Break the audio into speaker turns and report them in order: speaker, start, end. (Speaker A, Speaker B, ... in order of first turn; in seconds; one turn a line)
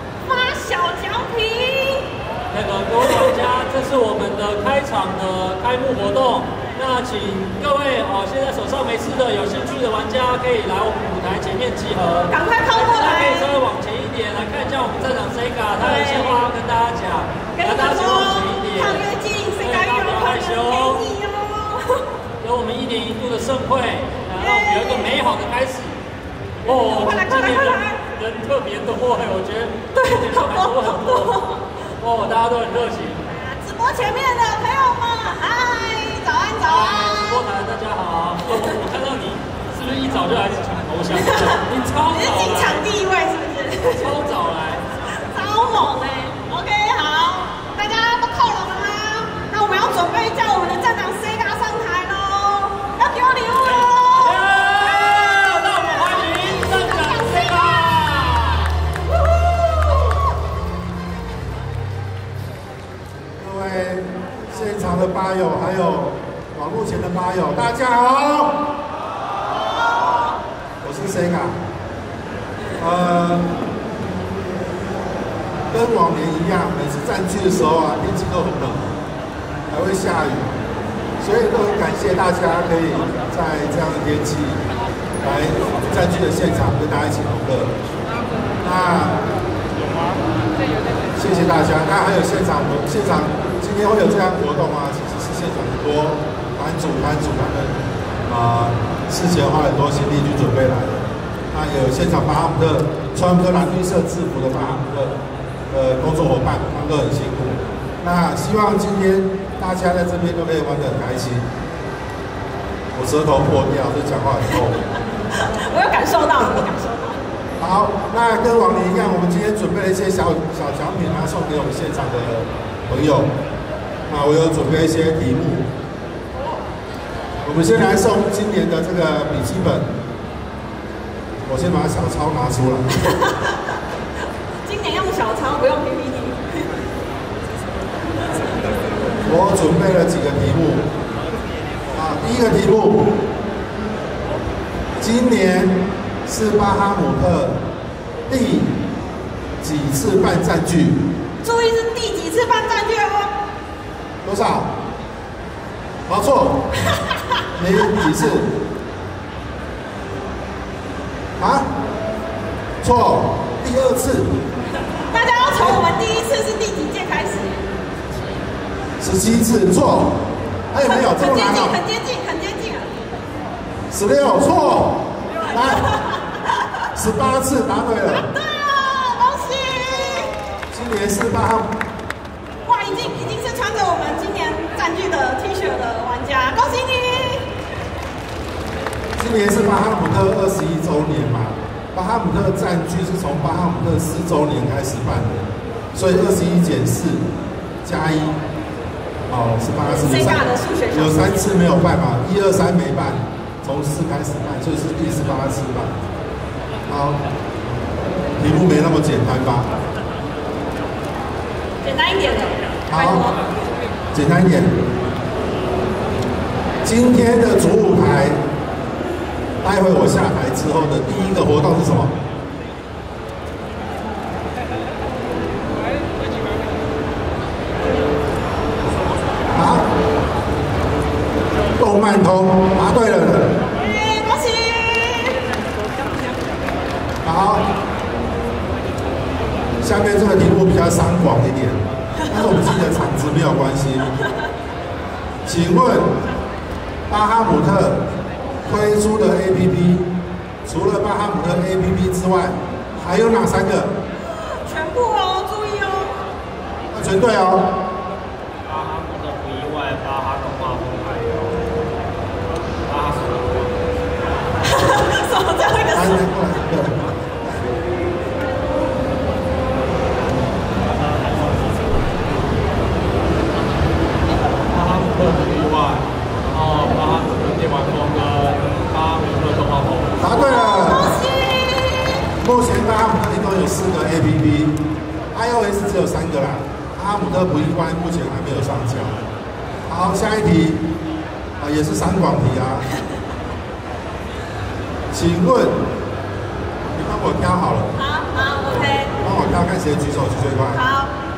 Speaker A: 0.2-2.1
Speaker B: 2.5-19.1
Speaker A: 12.3-13.5
Speaker A: 15.8-16.5
Speaker A: 17.5-22.1
Speaker B: 19.6-21.0
Speaker B: 22.4-26.0
Speaker A: 24.4-25.1
Speaker B: 26.6-31.4
Speaker A: 26.6-28.0
Speaker A: 29.9-31.7
Speaker B: 32.0-33.2
Speaker A: 33.3-37.4
Speaker B: 36.6-42.8
Speaker A: 41.1-44.2
Speaker B: 43.9-44.8
Speaker A: 45.1-58.0
Speaker B: 53.6-58.7
Speaker C: 63.4-68.7
Speaker C: 70.8-71.6
Speaker C: 72.8-73.6
Speaker C: 75.7-78.9
Speaker C: 79.7-80.6
Speaker C: 81.2-84.7
Speaker C: 85.2-87.7
Speaker C: 88.6-89.2
Speaker C: 91.2-105.2
Speaker C: 105.7-111.5
Speaker C: 112.9-114.8
Speaker A: 115.3-117.2
Speaker C: 117.6-123.3
Speaker C: 124.1-125.7
Speaker C: 127.4-129.9
Speaker C: 131.5-132.9
Speaker A: 133.0-133.6
Speaker A: 134.6-136.7
Speaker C: 139.2-140.9
Speaker C: 141.9-143.2
Speaker C: 145.0-147.6
Speaker C: 148.3-148.8
Speaker C: 149.6-151.1
Speaker A: 151.4-153.3
Speaker C: 154.2-154.7
Speaker C: 156.1-156.7
Speaker C: 157.6-158.5
Speaker C: 161.4-161.7
Speaker C: 162.8-164.4
Speaker A: 165.1-167.6
Speaker C: 165.5-165.8
Speaker C: 169.0-171.8
Speaker A: 170.8-172.9
Speaker C: 173.9-175.9
Speaker A: 175.5-176.3
Speaker C: 176.9-178.3
Speaker A: 178.1-180.4
Speaker C: 180.7-181.7
Speaker A: 182.7-187.5
Speaker C: 189.2-197.3
Speaker C: 197.8-198.4
Speaker C: 199.3-205.9
Speaker A: 199.8-201.5
Speaker C: 206.9-207.2
Speaker C: 208.4-209.7
Speaker A: 211.8-213.5
Speaker C: 212.9-213.3
Speaker C: 214.1-214.8
Speaker C: 216.8-218.4
Speaker C: 219.6-222.1
Speaker C: 229.5-229.9
Speaker C: 231.7-233.6
Speaker A: 233.8-235.4
Speaker C: 237.2-237.7
Speaker C: 239.8-244.1
Speaker C: 245.4-246.2
Speaker C: 247.1-248.0
Speaker C: 248.6-250.1
Speaker C: 250.7-253.9
Speaker A: 254.4-256.2
Speaker C: 256.9-257.8
Speaker B: 258.7-261.5
Speaker B: 262.9-263.5
Speaker A: 264.6-266.3
Speaker C: 265.9-267.7
Speaker B: 274.7-280.2
Speaker C: 280.2-281.2
Speaker A: 280.3-282.1
Speaker C: 282.4-284.8
Speaker C: 285.3-289.2
Speaker C: 289.9-290.9
Speaker C: 291.6-292.9
Speaker C: 295.1-295.8
Speaker C: 296.9-298.0
Speaker A: 297.9-299.1
Speaker C: 298.6-300.8
Speaker A: 300.7-301.1